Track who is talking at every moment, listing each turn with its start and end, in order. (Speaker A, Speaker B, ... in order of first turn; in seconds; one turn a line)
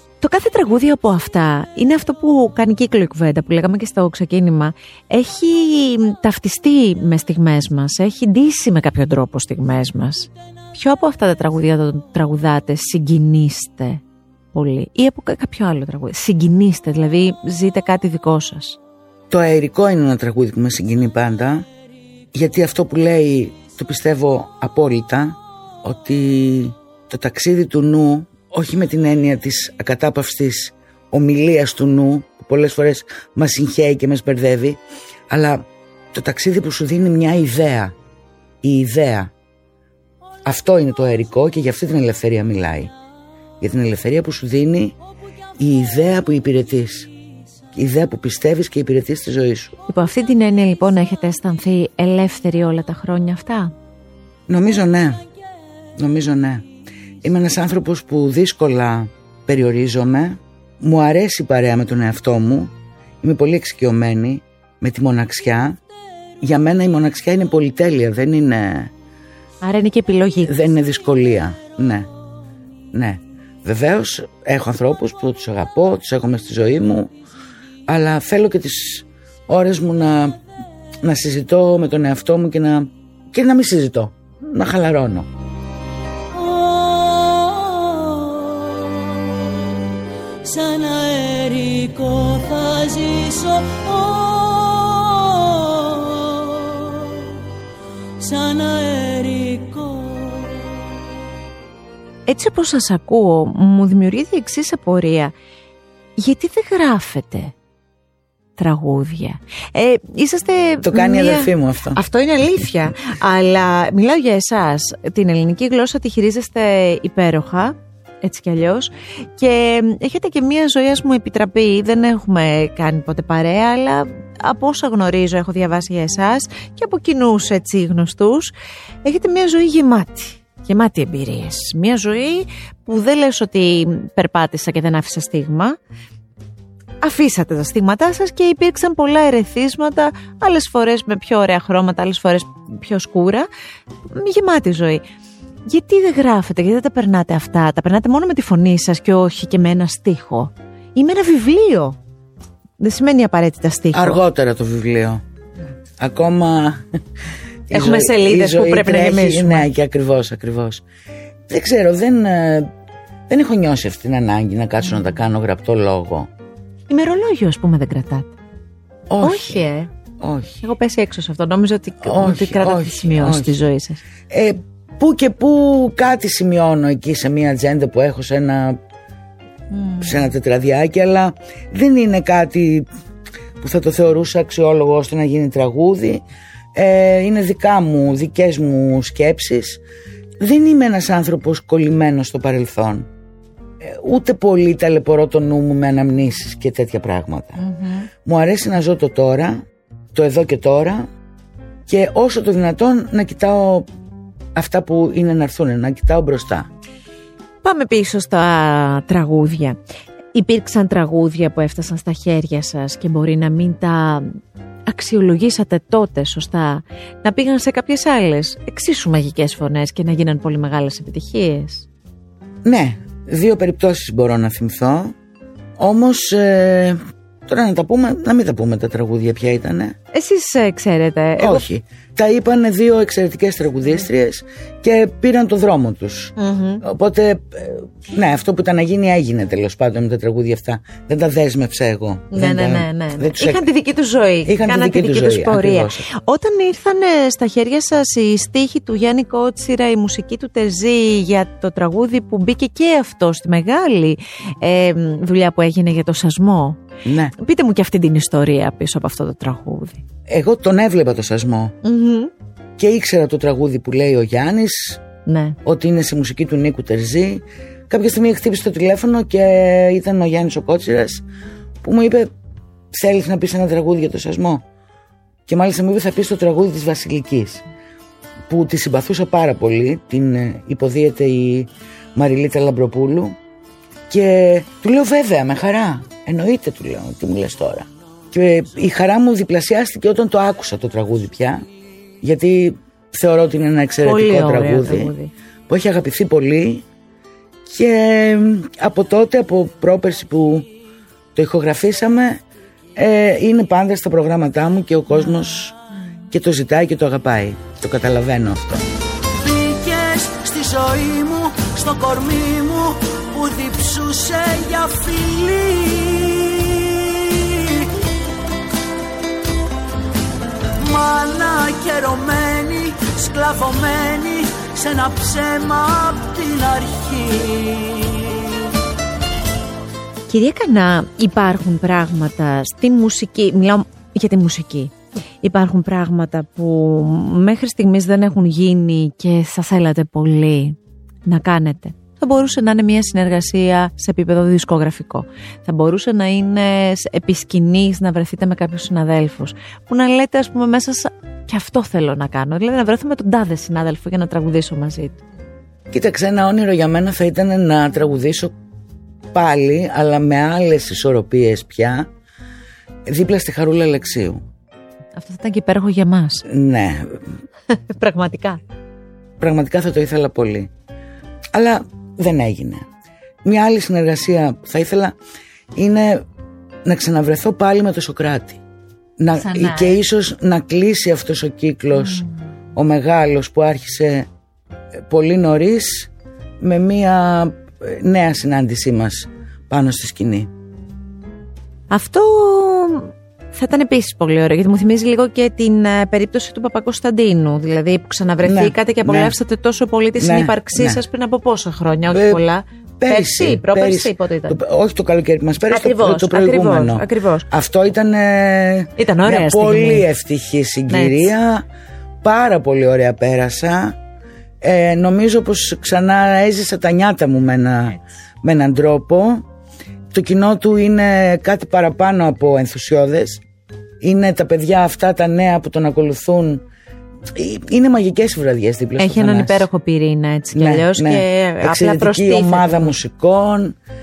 Speaker A: 0.2-14.0
Speaker A: 14.5-18.8
Speaker B: 19.3-21.7
Speaker B: 22.3-38.0
Speaker B: 38.6-39.3
Speaker B: 40.5-42.9
Speaker B: 43.6-45.0
Speaker B: 45.6-47.1
Speaker B: 47.7-49.8
Speaker A: 49.9-53.7
Speaker B: 54.5-55.2
Speaker B: 56.0-56.7
Speaker B: 57.2-65.8
Speaker B: 66.4-68.9
Speaker A: 69.6-70.5
Speaker B: 70.4-72.1
Speaker B: 72.9-77.1
Speaker B: 77.9-80.4
Speaker B: 81.0-85.3
Speaker C: 86.3-89.5
Speaker C: 90.4-97.3
Speaker C: 98.2-100.7
Speaker A: 102.3-105.3
Speaker A: 106.2-107.5
Speaker A: 108.6-128.5
Speaker B: 110.8-112.0
Speaker A: 129.0-135.8
Speaker A: 137.0-143.5
Speaker A: 144.1-145.0
Speaker A: 145.7-152.0
Speaker A: 152.8-154.2
Speaker B: 153.9-155.2
Speaker B: 156.0-156.9
Speaker B: 157.7-160.8
Speaker A: 157.7-159.7
Speaker B: 161.5-162.7
Speaker B: 163.3-166.3
Speaker A: 166.9-168.3
Speaker B: 169.1-169.6
Speaker A: 169.2-169.9
Speaker B: 170.2-170.6
Speaker A: 170.6-174.0
Speaker B: 172.0-173.6
Speaker B: 174.3-178.8
Speaker A: 179.7-180.2
Speaker B: 180.0-182.9
Speaker B: 183.6-186.2
Speaker B: 186.8-189.8
Speaker B: 190.4-193.1
Speaker B: 193.8-197.6
Speaker A: 197.6-198.1
Speaker B: 198.2-201.1
Speaker B: 201.9-203.9
Speaker B: 204.6-206.7
Speaker A: 207.6-209.8
Speaker A: 210.3-221.9
Speaker B: 222.7-225.2
Speaker B: 225.8-230.0
Speaker A: 230.1-231.7
Speaker B: 231.4-243.7
Speaker A: 236.4-236.8
Speaker A: 242.3-256.8
Speaker B: 244.4-246.0
Speaker B: 257.1-257.3
Speaker A: 257.4-260.0
Speaker B: 260.3-261.8
Speaker A: 261.8-262.3
Speaker B: 262.8-265.0
Speaker A: 265.3-265.6
Speaker B: 265.6-271.2
Speaker B: 271.8-272.3
Speaker B: 272.9-274.6
Speaker B: 275.5-277.6
Speaker B: 278.5-283.4
Speaker B: 284.1-291.6
Speaker B: 292.2-295.1
Speaker A: 294.0-295.3
Speaker B: 295.7-296.9
Speaker B: 297.7-300.7
Speaker B: 301.4-302.4
Speaker B: 303.0-305.8
Speaker B: 306.3-317.9
Speaker B: 320.8-328.6
Speaker A: 330.3-355.2
Speaker B: 355.9-358.5
Speaker B: 359.3-362.1
Speaker B: 363.1-364.4
Speaker A: 365.2-366.4
Speaker B: 366.4-367.4
Speaker A: 367.7-368.6
Speaker B: 369.4-370.7
Speaker B: 371.5-372.9
Speaker B: 373.4-375.1
Speaker B: 375.8-376.2
Speaker B: 376.9-378.6
Speaker B: 379.2-384.3
Speaker A: 379.4-380.0
Speaker B: 384.9-390.5
Speaker A: 391.9-404.6
Speaker B: 398.4-399.4
Speaker B: 400.2-401.0
Speaker B: 402.1-402.4
Speaker B: 403.0-411.7
Speaker A: 405.7-407.5
Speaker A: 409.0-410.1
Speaker A: 410.9-411.3
Speaker B: 412.2-414.0
Speaker B: 414.6-419.4
Speaker B: 420.1-423.4
Speaker B: 424.0-426.6
Speaker B: 427.3-429.7
Speaker A: 429.0-432.9
Speaker B: 430.5-433.8